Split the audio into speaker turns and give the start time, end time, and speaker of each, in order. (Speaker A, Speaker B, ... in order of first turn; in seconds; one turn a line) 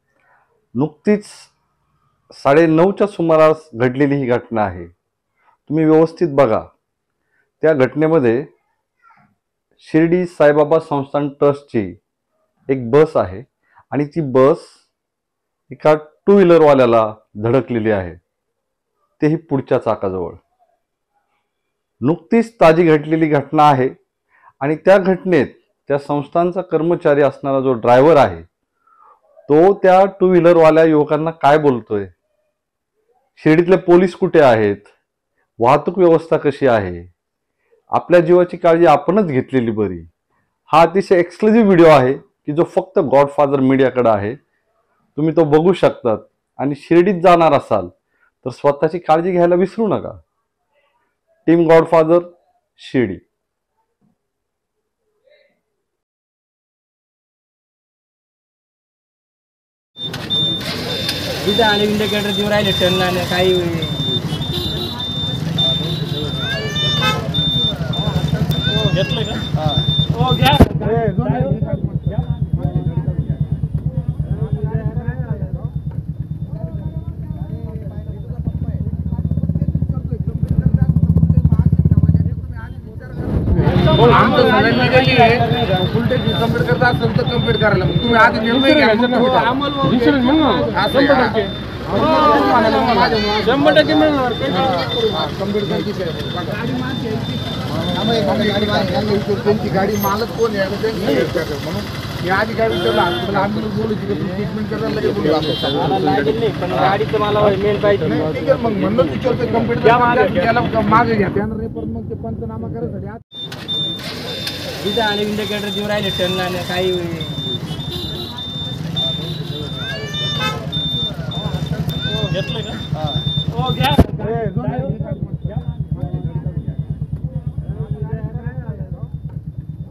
Speaker A: 0.8-1.5
Speaker A: 2.3-4.9
Speaker A: 5.7-6.7
Speaker A: 7.6-8.4
Speaker A: 9.8-12.0
Speaker A: 12.7-14.7
Speaker A: 15.7-18.2
Speaker A: 19.2-20.4
Speaker A: 22.0-23.9
Speaker A: 24.6-28.4
Speaker A: 29.5-32.1
Speaker A: 33.4-34.9
Speaker A: 35.6-37.1
Speaker A: 37.9-40.1
Speaker A: 40.7-44.4
Speaker A: 45.1-47.9
Speaker A: 48.4-50.2
Speaker A: 51.5-53.2
Speaker B: 61.4-64.3
Speaker B: 70.6-71.2
Speaker C: 81.8-89.8
Speaker B: 83.9-85.9
Speaker B: 90.0-90.5
Speaker C: 90.6-96.8
Speaker B: 96.7-98.3
Speaker C: 98.1-105.8
Speaker B: 105.7-108.2
Speaker C: 108.1-113.1
Speaker B: 109.8-110.4
Speaker B: 114.8-117.6
Speaker B: 123.8-124.2